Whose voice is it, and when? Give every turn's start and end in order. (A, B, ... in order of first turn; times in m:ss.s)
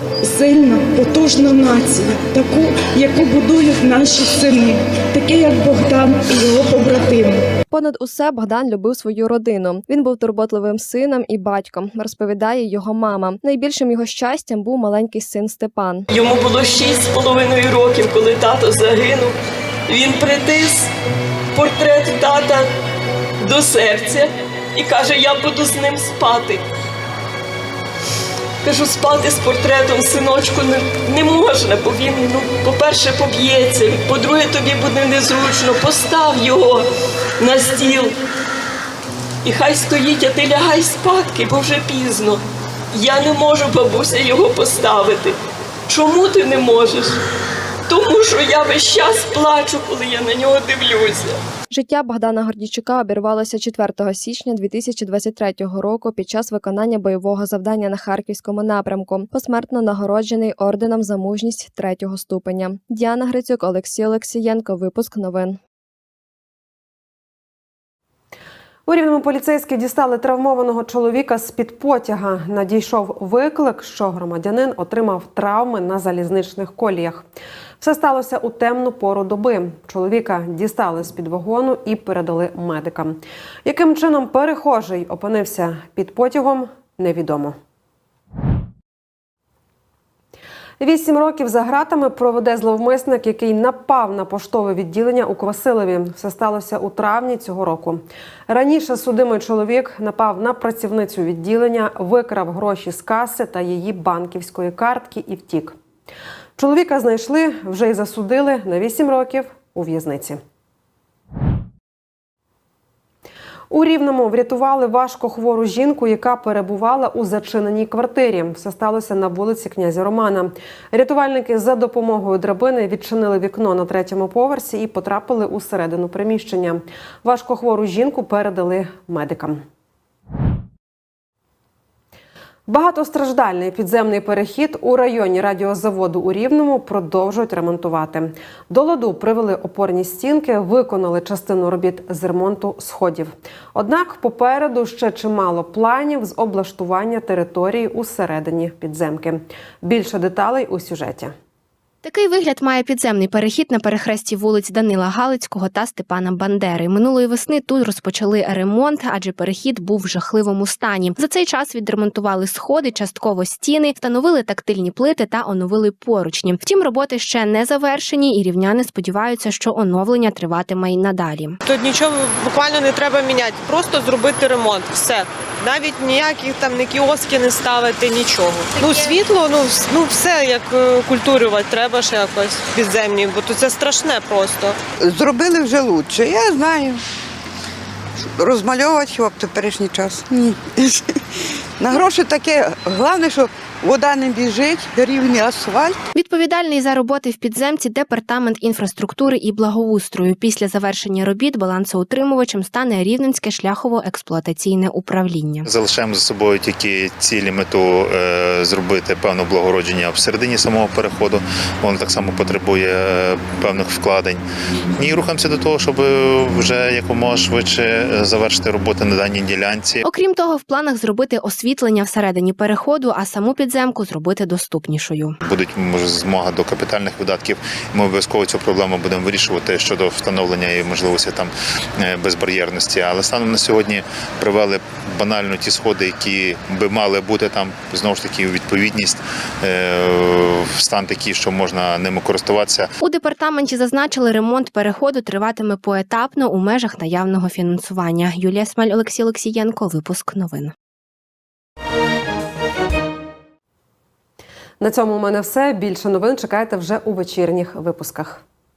0:00.2-0:07.4 A
0:07.7-0:16.1 B
0:16.1-0:20.9 C
0:21.5-0:22.7 C
0:23.4-0:26.6 C
0:28.6-0:36.9 C
0:37.4-0:38.2 C
0:39.4-0:45.4 C
0:45.9-0:47.2 C
0:47.9-0:51.4 C
0:51.7-1:05.6 B
1:08.9-1:17.3 D
1:17.8-1:27.6 D
1:30.8-1:45.8 D
1:46.6-1:50.4 D
1:53.7-2:09.6 D
2:12.7-2:31.4 D
2:32.0-2:51.6 E
2:51.6-3:04.8 F
3:05.0-3:07.0 G
3:08.4-3:11.1 G
3:11.8-3:16.0 G
3:16.2-3:25.7 E
3:25.6-3:34.4 H
3:35.0-3:40.0 H
3:40.0-3:45.4 E
3:45.4-4:02.9 H
4:03.0-4:10.7 E
4:14.8-4:18.4 D